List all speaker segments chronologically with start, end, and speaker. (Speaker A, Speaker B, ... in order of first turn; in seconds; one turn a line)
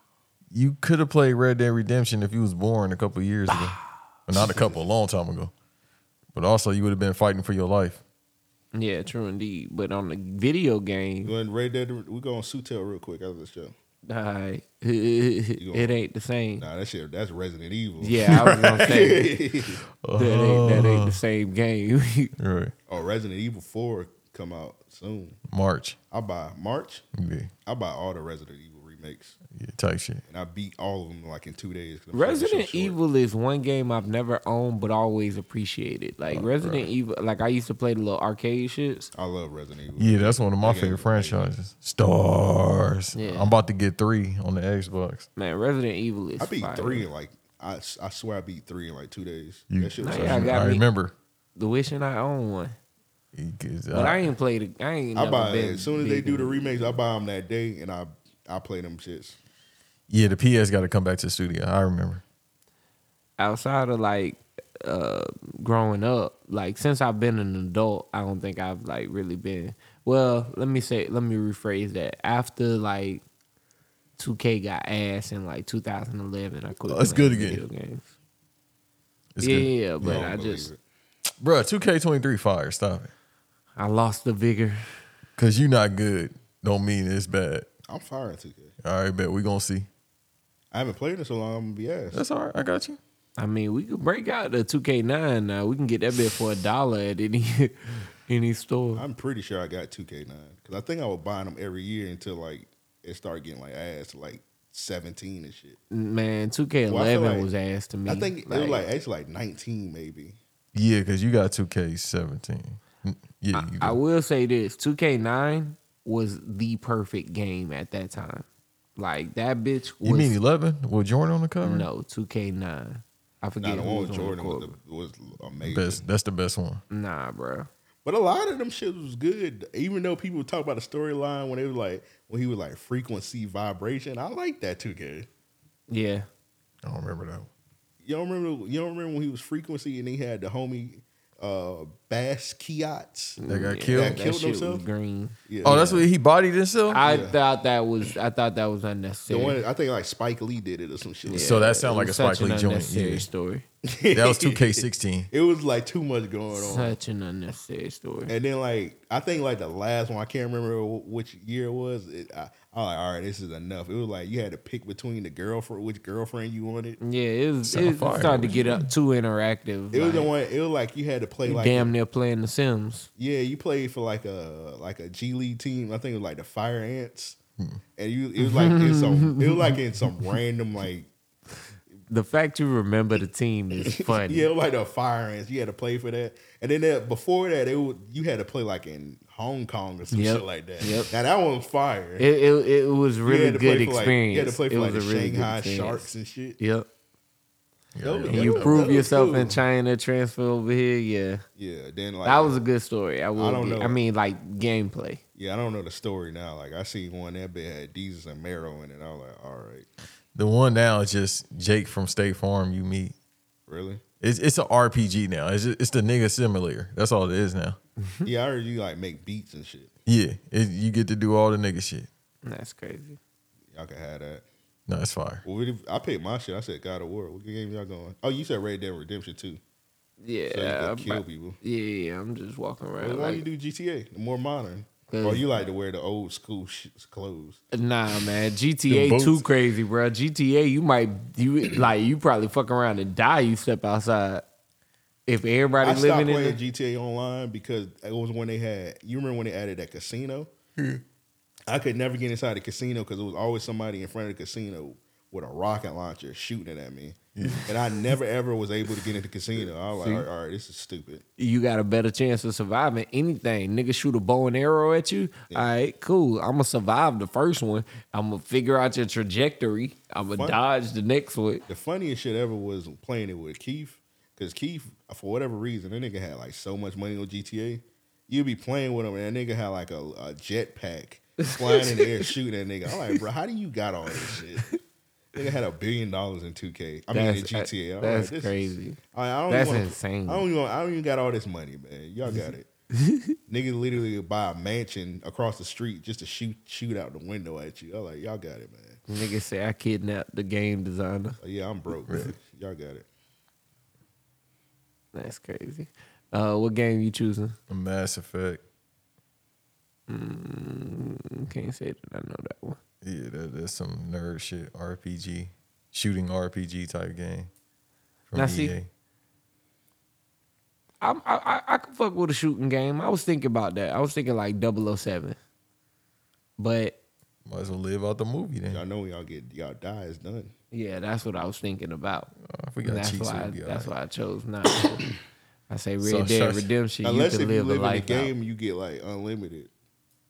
Speaker A: 0.5-5.5
Speaker B: 4.4-4.8
Speaker A: 6.3-8.0
Speaker C: 8.7-11.3
Speaker B: 11.2-13.7
Speaker C: 14.1-16.7
Speaker B: 15.6-15.9
Speaker B: 16.6-19.8
Speaker C: 18.0-19.3
Speaker A: 18.3-19.0
Speaker A: 20.0-21.2
Speaker C: 20.2-22.3
Speaker A: 22.4-22.7
Speaker B: 22.9-25.4
Speaker A: 25.5-26.0
Speaker B: 26.1-27.1
Speaker A: 27.1-27.5
Speaker B: 27.6-29.4
Speaker A: 29.5-30.2
Speaker B: 30.3-33.0
Speaker C: 32.1-39.1
Speaker A: 36.3-36.9
Speaker B: 39.1-41.5
Speaker A: 40.0-45.3
Speaker C: 43.1-43.5
Speaker C: 45.4-47.1
Speaker B: 46.4-50.6
Speaker A: 49.7-51.1
Speaker C: 50.0-50.9
Speaker C: 51.6-52.8
Speaker A: 53.3-54.3
Speaker C: 53.9-57.0
Speaker B: 55.1-59.4
Speaker A: 60.1-62.2
Speaker C: 63.4-73.2
Speaker C: 74.2-78.1
Speaker A: 76.9-77.6
Speaker A: 79.4-80.3
Speaker C: 79.4-80.7
Speaker B: 80.0-80.8
Speaker A: 81.4-83.1
Speaker C: 83.8-85.0
Speaker A: 85.4-87.7
Speaker B: 87.9-88.7
Speaker A: 88.8-89.9
Speaker B: 90.7-92.2
Speaker A: 92.1-93.0
Speaker C: 93.4-99.0
Speaker B: 99.0-105.8
Speaker C: 105.9-108.8
Speaker B: 106.9-107.5
Speaker B: 108.1-110.4
Speaker A: 110.8-114.0
Speaker C: 113.5-118.5
Speaker C: 119.0-120.3
Speaker A: 120.0-121.9
Speaker C: 121.6-124.8
Speaker B: 123.6-126.0
Speaker A: 125.6-126.8
Speaker C: 126.9-127.7
Speaker B: 128.0-135.3
Speaker C: 135.9-136.3
Speaker A: 136.8-137.5
Speaker B: 138.0-143.4
Speaker C: 143.4-146.1
Speaker A: 143.5-144.2
Speaker B: 143.9-144.8
Speaker B: 145.5-145.9
Speaker A: 145.6-147.0
Speaker C: 146.9-149.6
Speaker B: 147.0-147.4
Speaker B: 149.3-151.6
Speaker C: 151.3-153.7
Speaker A: 151.3-153.2
Speaker B: 153.8-157.0
Speaker A: 154.1-155.3
Speaker C: 156.5-158.3
Speaker B: 158.3-167.0
Speaker C: 167.0-170.3
Speaker A: 167.7-168.9
Speaker B: 169.9-171.9
Speaker C: 171.4-173.1
Speaker B: 173.2-177.4
Speaker B: 178.0-181.1
Speaker C: 178.4-179.8
Speaker C: 182.1-184.5
Speaker B: 183.9-192.3
Speaker C: 190.1-191.1
Speaker C: 192.2-196.8
Speaker B: 193.2-196.6
Speaker A: 198.0-198.9
Speaker B: 198.0-199.6
Speaker C: 198.3-201.4
Speaker B: 201.6-202.6
Speaker C: 202.2-205.2
Speaker B: 203.4-204.0
Speaker B: 205.3-209.9
Speaker A: 210.3-213.1
Speaker B: 213.7-214.0
Speaker A: 214.2-217.8
Speaker B: 218.2-219.9
Speaker A: 220.1-222.1
Speaker C: 222.4-223.2
Speaker B: 223.7-224.5
Speaker A: 224.9-225.4
Speaker B: 225.4-229.6
Speaker C: 230.2-233.5
Speaker B: 230.5-231.6
Speaker B: 233.0-237.6
Speaker C: 235.1-235.4
Speaker C: 237.7-244.4
Speaker A: 238.9-239.4
Speaker C: 245.3-246.6
Speaker B: 245.8-250.5
Speaker B: 251.7-261.2
Speaker A: 257.4-257.7
Speaker C: 259.9-260.3
Speaker C: 261.4-271.6
Speaker B: 271.7-284.7
Speaker C: 281.4-282.1
Speaker B: 285.4-292.7
Speaker C: 287.1-290.5
Speaker C: 293.0-293.3
Speaker B: 293.5-299.0
Speaker C: 299.1-301.4
Speaker B: 301.4-303.1
Speaker A: 302.1-302.3
Speaker C: 305.1-307.6
Speaker A: 307.7-308.6
Speaker C: 310.1-312.8
Speaker A: 313.0-317.5
Speaker A: 318.3-318.9
Speaker C: 318.3-318.8
Speaker C: 321.0-325.4
Speaker C: 326.6-327.0
Speaker A: 327.5-328.8
Speaker B: 328.7-330.5
Speaker C: 330.7-332.3
Speaker A: 332.4-333.9
Speaker C: 332.8-335.0
Speaker C: 335.7-338.3
Speaker A: 336.0-336.7
Speaker B: 337.0-339.7